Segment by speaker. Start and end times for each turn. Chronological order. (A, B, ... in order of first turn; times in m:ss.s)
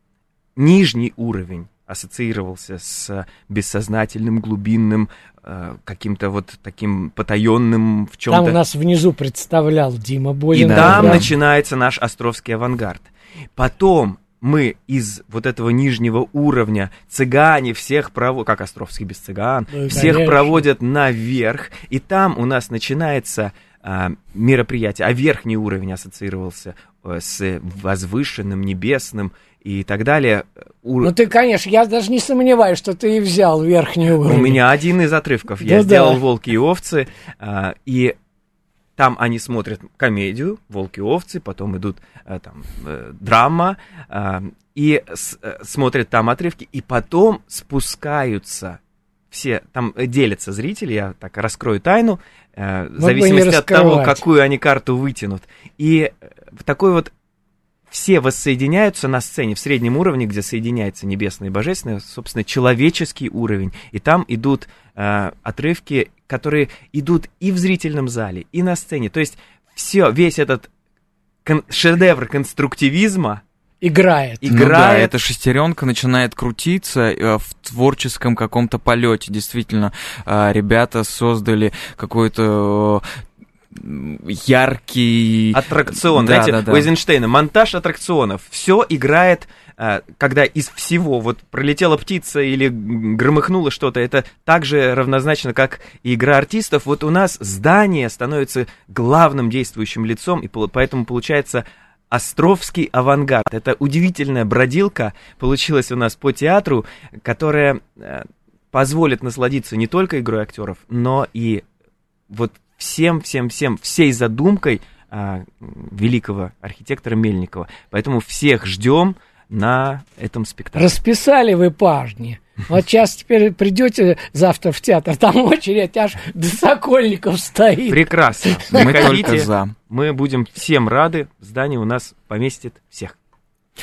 0:00.6-0:08.6 A
0:08.3-0:11.3 B
0:10.5-0:11.3 C
0:10.5-0:31.1 A
0:19.7-0:20.6 B
0:31.0-0:34.6 B
0:34.2-0:38.1 A
0:35.6-0:36.2 B
0:39.0-0:48.8 A
0:49.3-0:57.1 A
0:53.0-0:54.2 B
0:57.9-1:10.7 A
1:11.4-1:13.4 A
1:13.8-1:14.4 B
1:14.4-1:15.2 A
1:14.4-1:23.0 C
1:23.7-1:26.9 C
1:25.5-1:51.6 A
1:52.3-2:00.9 A
2:00.8-2:09.3 B
2:07.9-2:13.1 A
2:08.7-2:09.7 C